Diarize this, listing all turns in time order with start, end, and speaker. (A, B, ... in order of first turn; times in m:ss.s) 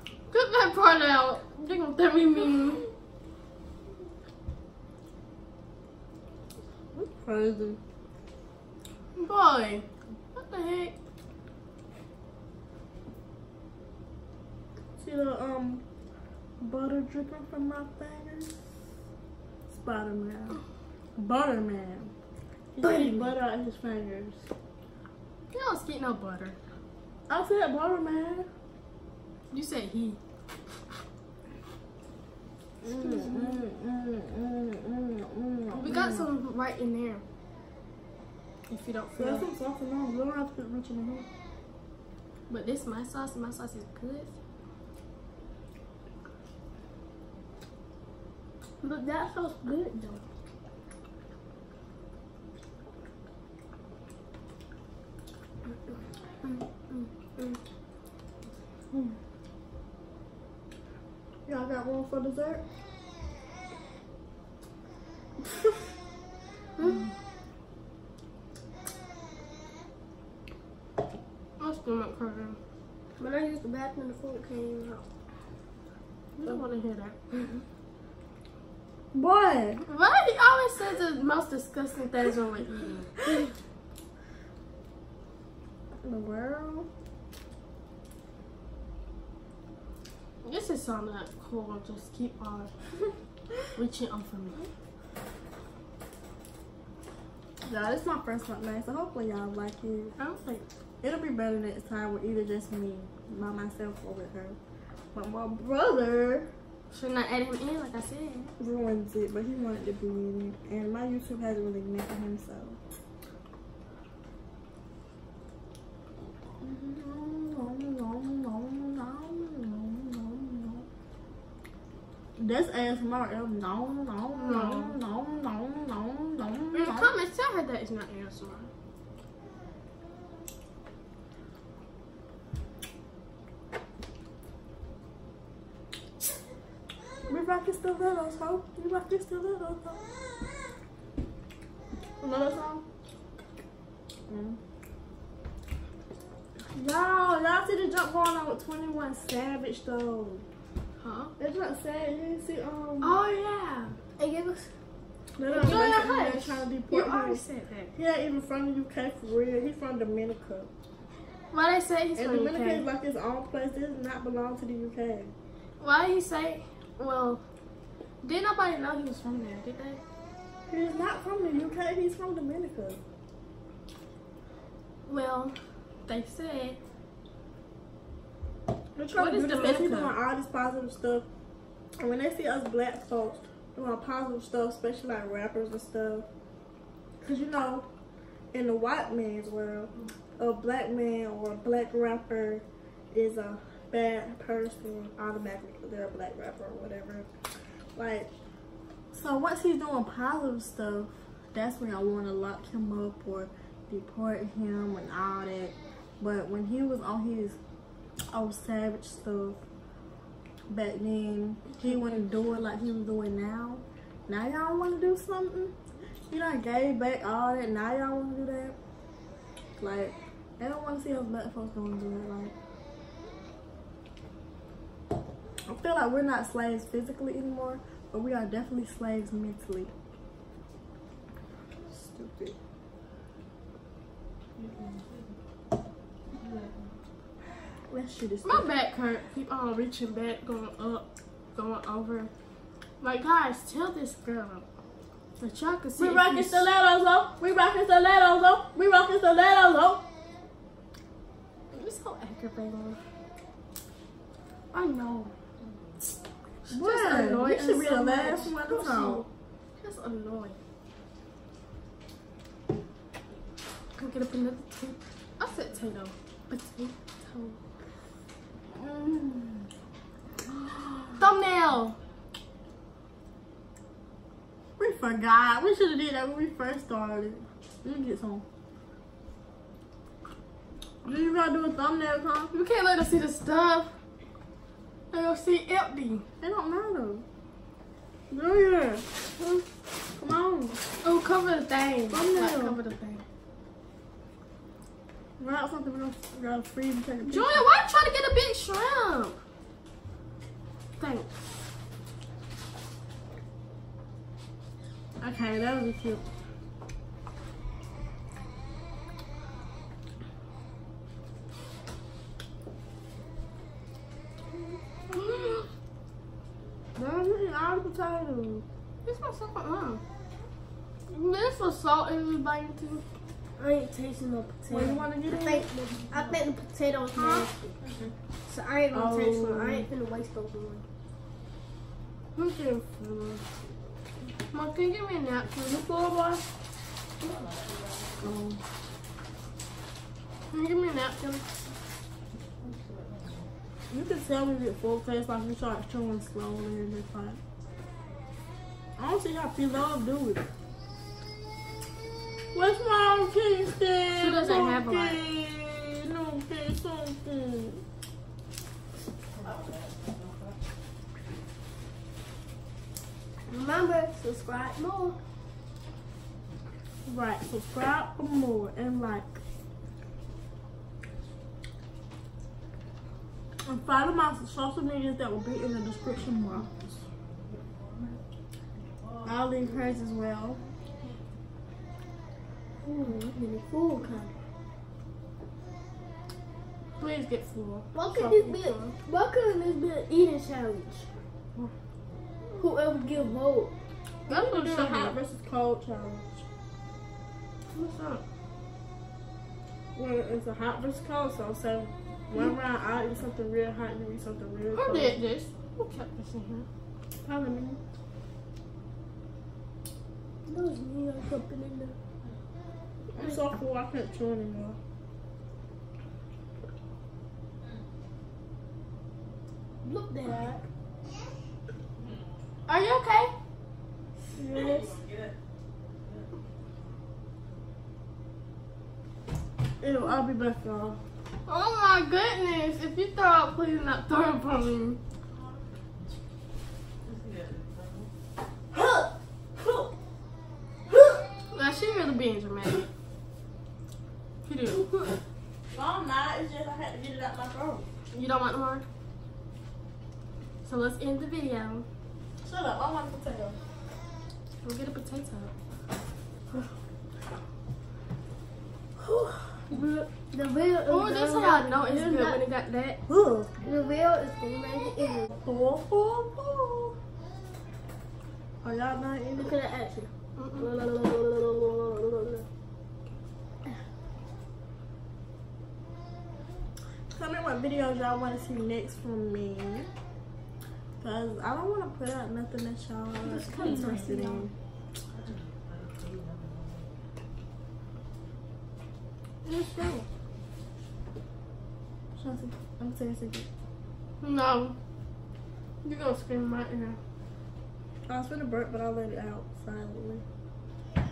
0:00.3-0:02.8 A
0:06.9-0:07.8 B
0:09.2-0:11.0 A
0:15.0-0:15.8 B
0:16.6-0:18.6 B
0:19.7-0:20.6 B
0:21.2-0:22.1 B
0:22.8-0:24.5 B
0:22.8-0:23.4 C
0:25.5-0:26.6 A
0:27.3-0:28.5 B
0:29.5-0:30.2 A
0:32.8-0:36.3 B
0:33.0-0:33.6 A
0:35.8-0:37.2 A
0:38.7-0:39.5 A
0:39.2-0:41.3 B
0:42.5-0:44.3 A
0:48.8-0:50.2 C
1:01.5-1:02.6 B
1:11.6-1:12.6 A
1:13.2-1:15.0 C
1:16.4-1:17.6 A
1:19.1-1:19.8 B
1:19.9-1:23.2 A
1:26.0-1:26.9 B
1:30.4-1:32.7 A
1:33.7-1:34.7 A
1:37.6-1:44.6 B
1:40.2-1:40.4 A
1:45.1-1:46.5 B
1:46.9-1:48.5 A
1:48.6-1:52.8 B
1:56.6-2:00.9 B
2:02.4-2:07.1 B
2:04.3-2:05.0 A
2:06.7-2:08.7 A
2:17.3-2:20.1 B
2:22.2-2:22.8 B
2:24.3-2:24.6 B
2:26.7-2:30.5 B
2:31.0-2:31.3 A
2:31.4-2:33.2 B
2:33.0-2:34.0 A
2:34.2-2:34.7 C
2:35.4-2:37.4 B
2:35.5-2:37.9 A
2:37.9-2:40.7 B
2:41.5-2:42.9 A
2:42.2-2:45.3 B
2:45.8-2:47.4 A
2:48.2-2:50.0 A
2:50.7-2:53.0 B
2:55.1-2:56.8 A
2:59.0-3:01.3 B
2:59.1-3:00.2 A
3:02.0-3:06.3 B
3:07.2-3:07.9 B
3:08.5-3:17.3 B
3:18.0-3:18.3 B
3:19.1-3:27.6 B
3:28.3-3:29.6 B
3:30.7-3:35.7 B
3:36.3-3:38.8 B
3:39.8-3:42.5 B
3:45.7-3:49.9 B
3:51.8-3:52.6 B
3:57.9-3:58.7 B
3:58.4-4:02.3 A
4:03.0-4:04.6 A
4:05.4-4:06.7 A
4:06.0-4:10.0 B
4:11.7-4:13.0 A
4:14.7-4:15.3 A
4:16.6-4:19.3 A
4:16.7-4:19.3 B
4:19.8-4:20.6 A
4:24.0-4:27.6 A
4:28.7-4:29.7 B
4:30.5-4:31.2 B
4:31.2-4:32.0 A
4:34.8-4:38.4 B
4:41.0-4:42.5 B
4:42.5-4:43.9 A
4:45.1-4:46.2 A
4:46.4-4:47.2 B
4:48.3-4:49.1 B
4:50.2-4:50.8 B
4:51.0-4:53.2 A
4:52.1-4:52.8 B
4:55.4-4:57.6 B
4:57.2-4:59.4 A
5:01.0-5:01.3 A
5:05.2-5:06.2 B
5:15.1-5:15.7 A
5:17.0-5:18.7 B
5:19.0-5:20.0 A
5:21.1-5:23.0 A
5:23.6-5:27.8 C
5:24.7-5:25.7 B
5:28.5-5:30.8 C
5:28.9-5:29.9 B
5:32.4-5:33.4 A
5:34.5-5:36.4 A
5:38.2-5:38.6 B
5:40.5-5:41.4 A
5:43.9-5:47.4 B
5:49.0-5:50.4 B
5:52.5-5:57.8 B
5:54.2-5:55.2 A
6:03.5-6:05.2 C
6:07.1-6:09.4 B
6:13.7-6:16.9 B
6:19.2-6:20.6 B
6:22.8-6:24.3 C
6:27.0-6:29.0 A
6:27.9-6:31.1 C
6:32.6-6:33.7 C
6:34.3-6:35.2 A
6:34.3-6:36.4 B
6:37.7-6:38.2 A
6:40.0-6:45.2 B
6:44.7-6:46.7 A
6:47.2-6:47.8 B
6:50.5-6:52.0 C
6:53.1-6:54.8 B
6:59.8-7:00.6 C
7:02.7-7:03.3 A
7:04.3-7:05.0 C
7:09.8-7:11.0 B
7:11.5-7:15.0 A
7:18.7-7:19.9 B
7:21.5-7:22.9 A
7:24.4-7:25.0 A
7:25.7-7:27.9 B
7:28.1-7:28.8 A
7:30.6-7:31.8 A
7:32.4-7:33.6 B
7:34.6-7:35.5 A
7:39.0-7:39.6 B
7:39.7-7:42.4 C
7:40.9-7:43.0 A
7:43.1-7:43.5 B
7:43.6-7:45.3 C
7:45.4-7:47.0 B
7:48.6-7:49.5 B
7:49.4-7:52.5 C
7:50.4-7:50.7 A
7:57.1-7:59.9 B
8:01.0-8:04.5 B
8:03.2-8:04.5 A
8:03.4-8:04.1 C
8:09.4-8:10.1 A
8:12.2-8:13.5 B
8:14.2-8:14.8 A
8:15.8-8:17.0 A
8:18.1-8:20.2 B